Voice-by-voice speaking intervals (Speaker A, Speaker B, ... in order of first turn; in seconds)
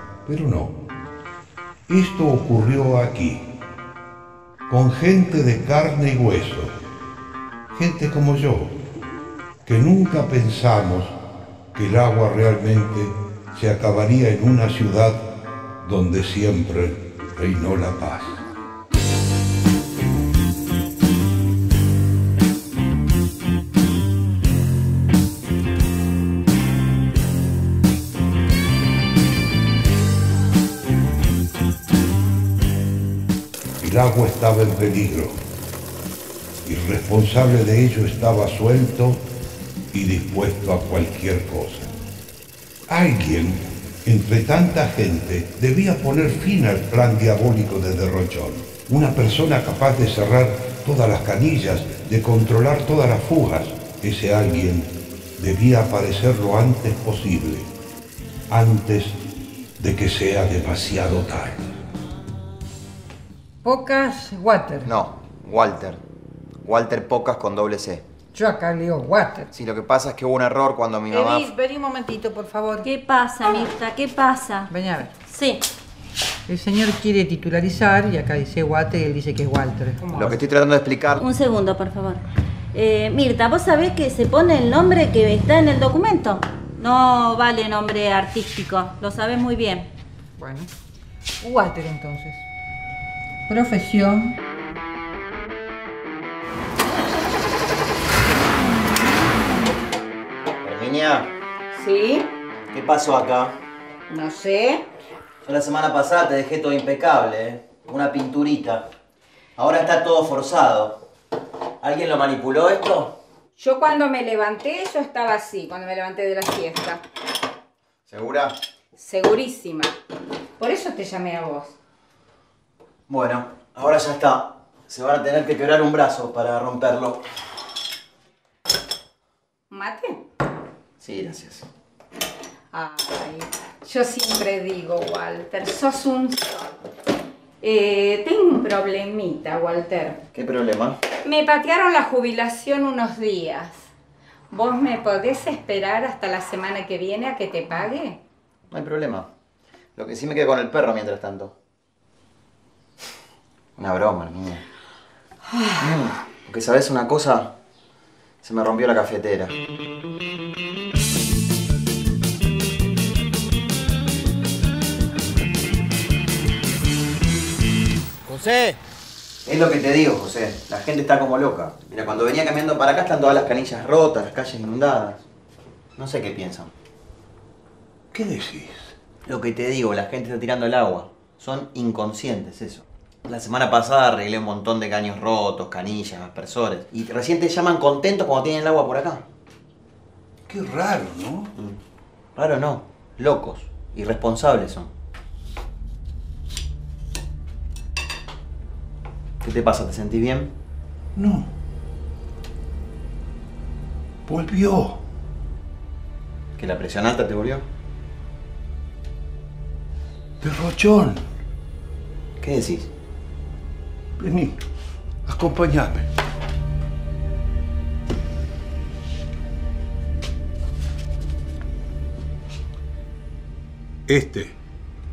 Speaker A: 0.2-0.8, 1.9-3.5, 4.7-6.7, 7.7-8.8, 9.6-11.2, 11.7-15.2, 15.8-18.4, 33.8-35.4, 36.6-39.2, 39.9-41.9, 42.9-57.7, 58.5-59.2, 59.8-61.6, 178.1-178.9, 190.5-191.5, 201.1-201.5, 204.2-205.0, 210.4-211.2, 214.2-214.6, 215.2-216.1, 224.1-224.6
Speaker B: 63.6-64.9, 68.3-69.5, 71.1-72.9, 74.7-75.2, 76.5-80.4, 90.4-90.7, 91.4-92.4, 93.5-94.3
Speaker C: 64.8-66.0, 66.6-68.0, 69.5-71.5, 80.1-81.2, 100.6-101.3, 102.7-103.5, 105.4-108.8, 109.5-111.0, 111.8-113.1, 118.1-118.5, 123.1-127.2, 131.0-131.7, 140.3-141.0, 148.7-149.3, 149.9-151.5, 153.8-154.6, 155.8-157.5, 158.4-159.6, 168.2-168.8, 169.4-175.2, 175.9-176.7, 179.2-189.2, 192.3-194.9, 199.4-200.5, 206.6-207.7, 212.4-212.9
Speaker D: 72.8-74.7, 75.3-75.6, 81.2-89.9
Speaker E: 101.7-102.3, 104.1-104.8, 113.6-117.0, 119.0-120.0, 120.6-121.7, 129.7-130.2, 132.7-136.7, 137.6-140.2, 141.2-143.9, 144.5-148.2